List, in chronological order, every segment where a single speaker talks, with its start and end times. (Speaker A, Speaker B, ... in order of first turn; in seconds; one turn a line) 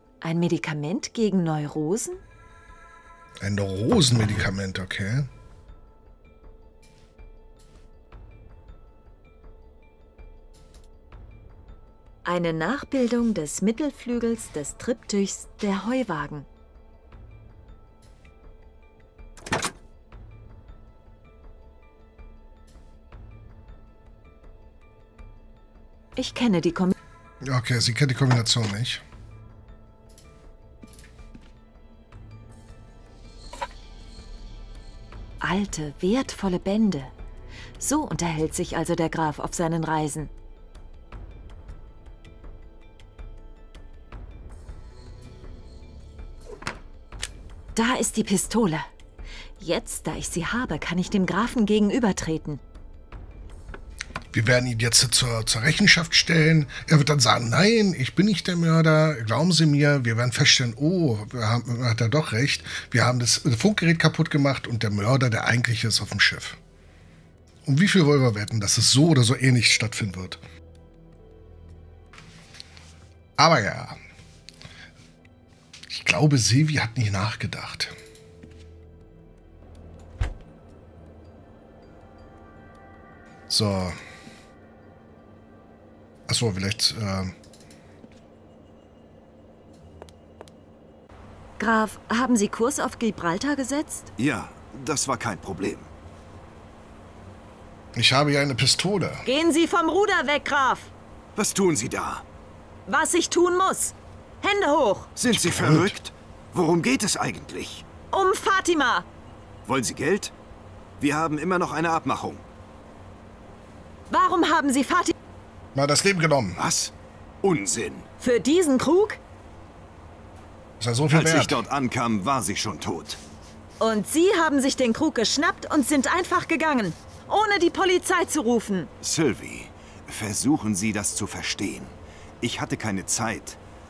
Speaker A: 0.2-2.2
Speaker B: 3.4-5.3
Speaker A: 12.2-16.5
Speaker A: 26.1-26.9
Speaker B: 27.4-29.0
Speaker A: 35.4-37.1
Speaker A: 37.8-40.3
Speaker A: 47.7-48.9
Speaker A: 49.6-52.6
Speaker B: 54.3-66.6
Speaker B: 67.6-70.4
Speaker B: 73.4-74.0
Speaker B: 75.9-77.9
Speaker B: 83.5-84.0
Speaker B: 86.3-87.3
Speaker A: 91.6-94.1
Speaker C: 94.2-95.9
Speaker B: 97.9-99.2
Speaker A: 99.2-100.9
Speaker C: 101.3-102.2
Speaker A: 102.9-105.1
Speaker C: 105.2-107.8
Speaker B: 105.3-105.9
Speaker A: 108.1-109.0
Speaker C: 109.7-110.3
Speaker C: 111.0-112.4
Speaker A: 114.1-115.1
Speaker B: 115.7-116.6
Speaker C: 116.6-118.1
Speaker A: 118.2-119.2
Speaker B: 120.8-121.6
Speaker C: 121.1-123.2
Speaker A: 123.8-128.9
Speaker C: 129.0-133.6